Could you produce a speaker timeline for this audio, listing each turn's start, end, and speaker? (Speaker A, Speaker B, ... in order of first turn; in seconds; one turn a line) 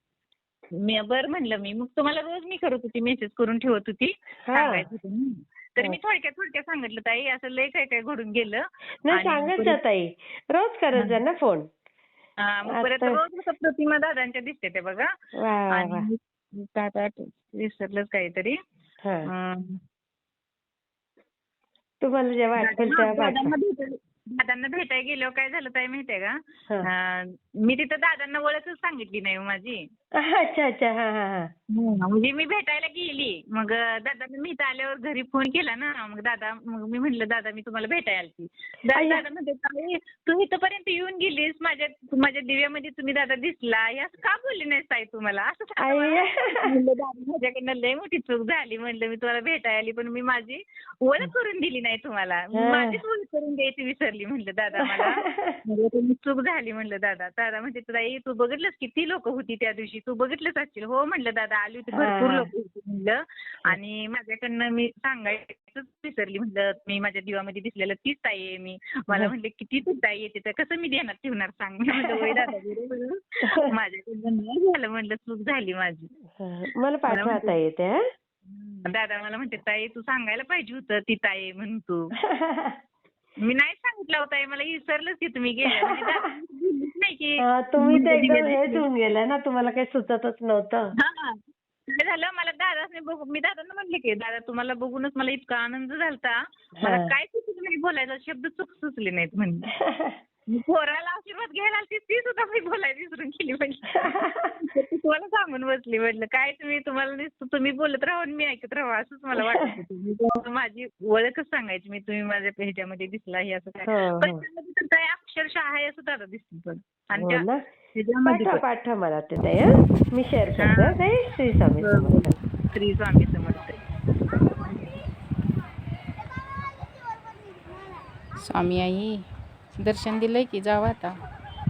Speaker A: 0.8-9.8
Speaker B: 4.5-4.8
Speaker B: 9.1-11.7
Speaker A: 12.4-15.1
Speaker B: 12.7-13.2
Speaker B: 15.4-16.1
Speaker A: 15.7-18.6
Speaker A: 19.4-19.8
Speaker B: 22.0-23.5
Speaker A: 22.6-26.3
Speaker A: 26.9-29.8
Speaker B: 30.2-31.5
Speaker A: 31.7-76.1
Speaker B: 38.9-39.2
Speaker B: 45.8-46.7
Speaker B: 52.5-53.0
Speaker B: 54.9-55.5
Speaker B: 62.0-62.4
Speaker B: 72.2-72.5
Speaker B: 76.4-78.0
Speaker A: 77.1-77.5
Speaker A: 78.5-82.0
Speaker B: 82.3-82.7
Speaker A: 83.4-88.8
Speaker B: 85.8-86.1
Speaker B: 87.5-90.8
Speaker A: 91.0-91.3
Speaker A: 91.9-99.7
Speaker B: 96.8-97.1
Speaker B: 99.8-100.2
Speaker A: 100.5-117.4
Speaker B: 104.0-104.5
Speaker B: 113.9-114.4
Speaker B: 117.2-117.6
Speaker A: 117.9-118.6
Speaker B: 118.2-122.3
Speaker A: 120.6-121.1
Speaker A: 121.8-123.7
Speaker C: 128.4-129.2
Speaker C: 129.7-131.2